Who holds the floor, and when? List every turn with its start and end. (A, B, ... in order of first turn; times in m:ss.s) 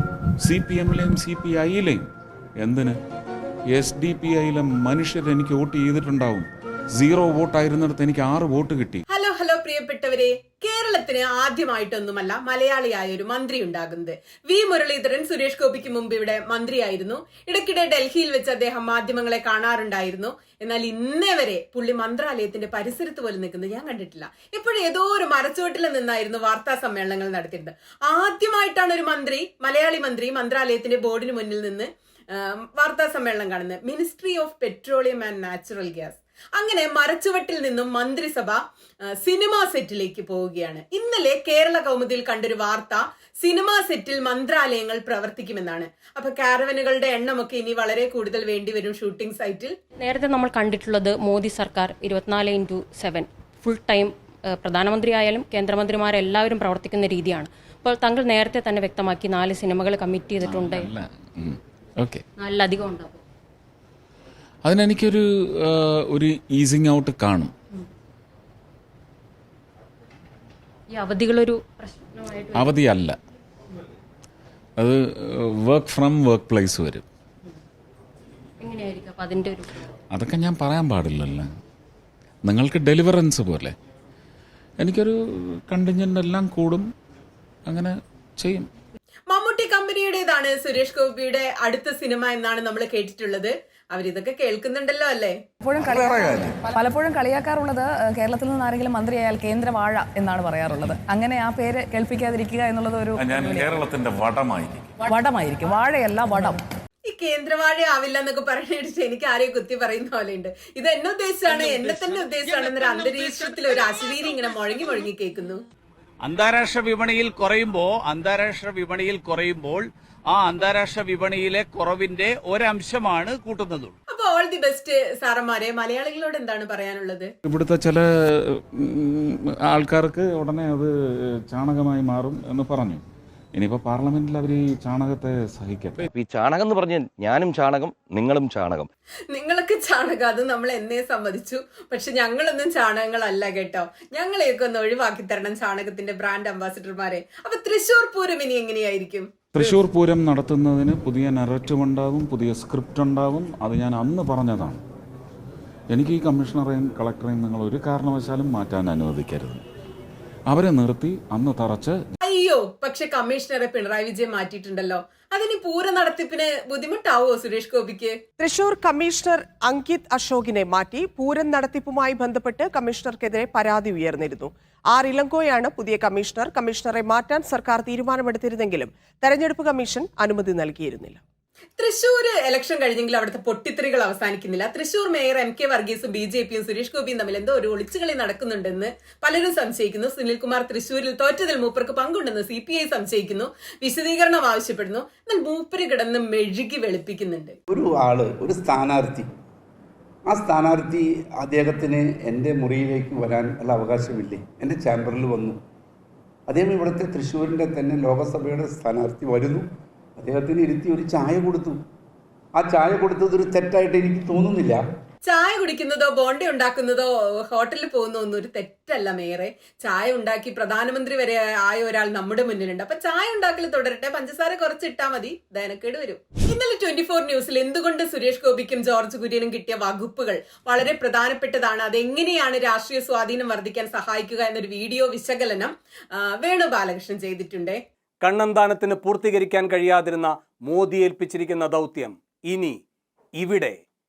0:00.4-0:02.0 A
0:02.6-0:02.9 A
0:03.7-0:09.0 A
0:09.1-0:38.6 B
0:39.2-0:49.7 B
0:50.0-1:00.9 C
1:00.4-1:02.2 A
1:02.4-1:03.2 C
1:04.6-1:07.5 A
1:10.9-1:12.7 C
1:12.6-1:13.2 A
1:14.8-1:17.0 A
1:18.6-1:19.9 C
1:20.1-1:21.5 A
1:22.4-1:23.8 A
1:24.8-1:26.9 A
1:27.7-1:28.7 A
1:29.3-1:35.4 B
1:35.6-1:43.7 D
1:35.8-1:36.6 A
1:43.2-1:44.9 A
1:45.0-1:46.6 D
1:47.1-1:55.6 B
1:51.5-1:54.6 E
1:56.2-2:04.0 E
2:04.1-2:07.3 B
2:07.4-2:10.9 A
2:11.5-2:13.0 A
2:13.5-2:16.0 A
2:16.0-2:18.9 F
2:19.3-2:29.3 B
2:29.5-2:34.8 A
2:35.9-2:39.6 A
2:40.5-2:42.0 A
2:42.2-2:48.2 B
2:48.4-3:01.2 G
3:01.8-3:17.6 B
3:17.7-3:19.3 H
3:20.3-3:25.6 H
3:26.5-3:29.7 H
3:30.2-3:31.8 H
3:32.6-3:34.8 H
3:35.2-3:57.8 B
3:58.2-4:02.8 I
4:03.4-4:03.8 I